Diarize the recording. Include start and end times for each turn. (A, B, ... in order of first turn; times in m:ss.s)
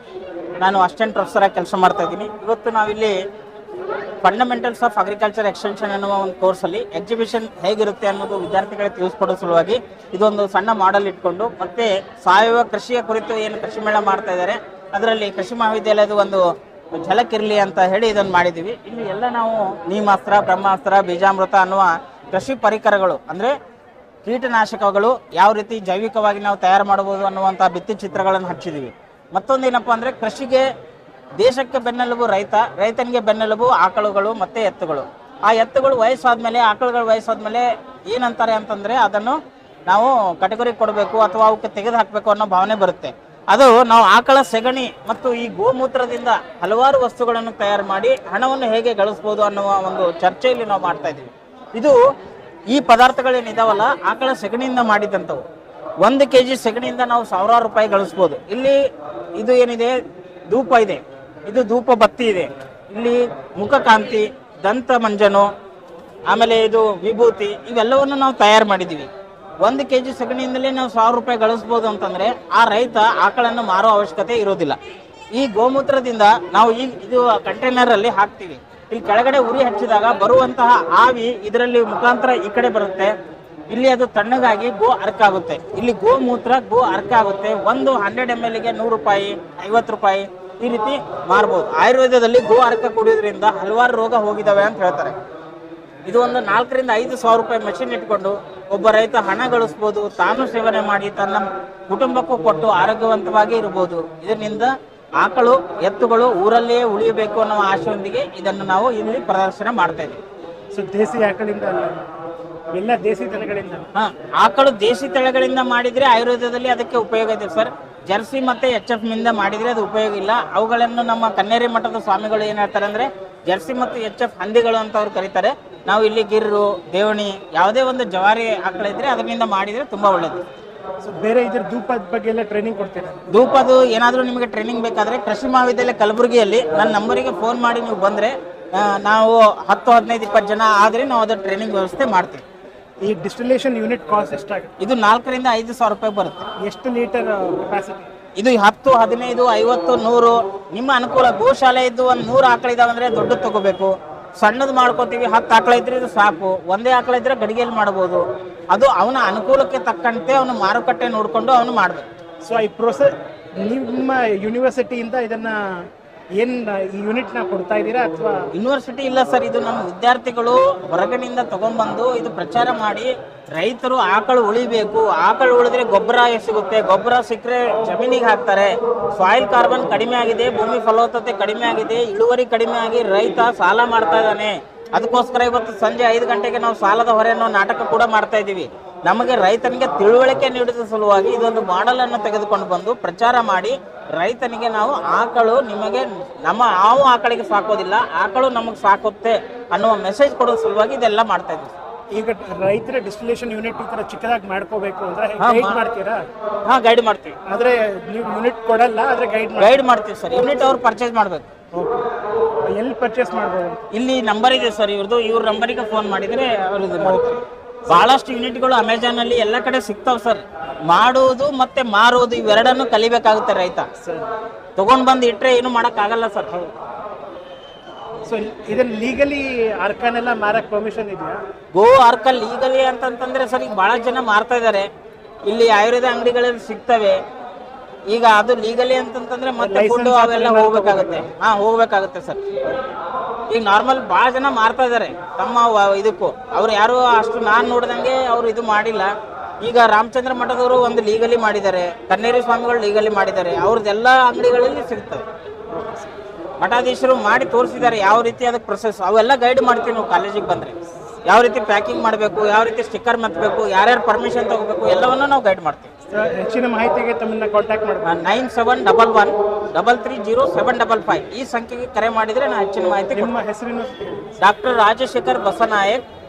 0:00.6-0:03.2 A
0:04.2-0:16.4 A
0:17.0-0:23.5 A
0:24.2-0:30.7 A
0:31.4-0:39.4 A
0:39.9-0:52.0 A
0:52.7-0:55.4 A
0:56.0-0:58.8 A
0:59.4-1:00.0 A
1:00.5-1:05.5 A
1:06.3-1:09.1 A
1:09.6-1:14.8 A
1:15.3-1:23.1 A
1:23.7-1:35.2 A
1:36.1-1:50.2 A
1:50.7-1:51.9 B
1:52.7-1:53.9 B
1:53.9-2:10.4 A
2:11.0-2:13.1 B
2:13.3-2:22.4 A
2:23.0-2:24.7 B
2:24.8-2:26.4 A
2:26.6-2:28.1 B
2:28.4-2:42.0 A
2:42.4-2:45.9 B
2:46.4-2:48.4 B
2:48.5-3:21.7 A
3:22.1-3:26.2 B
3:25.4-3:25.8 A
3:26.6-3:27.4 A
3:27.4-3:29.8 B
3:29.6-3:31.5 A
3:31.7-3:32.0 B
3:32.7-3:33.8 B
3:33.9-3:43.9 A
3:37.0-3:37.3 B
3:44.0-3:44.3 B
3:44.8-3:46.5 A
3:48.2-3:51.4 B
3:51.7-3:54.9 A
3:55.5-3:57.2 A
3:58.1-4:02.4 A
3:59.6-4:01.3 B
4:03.5-4:15.2 A
4:15.7-4:16.1 B
4:16.6-4:20.8 A
4:21.3-4:25.9 A
4:26.1-4:28.2 B
4:28.0-4:33.3 A
4:33.1-4:34.1 B
4:34.4-4:36.0 A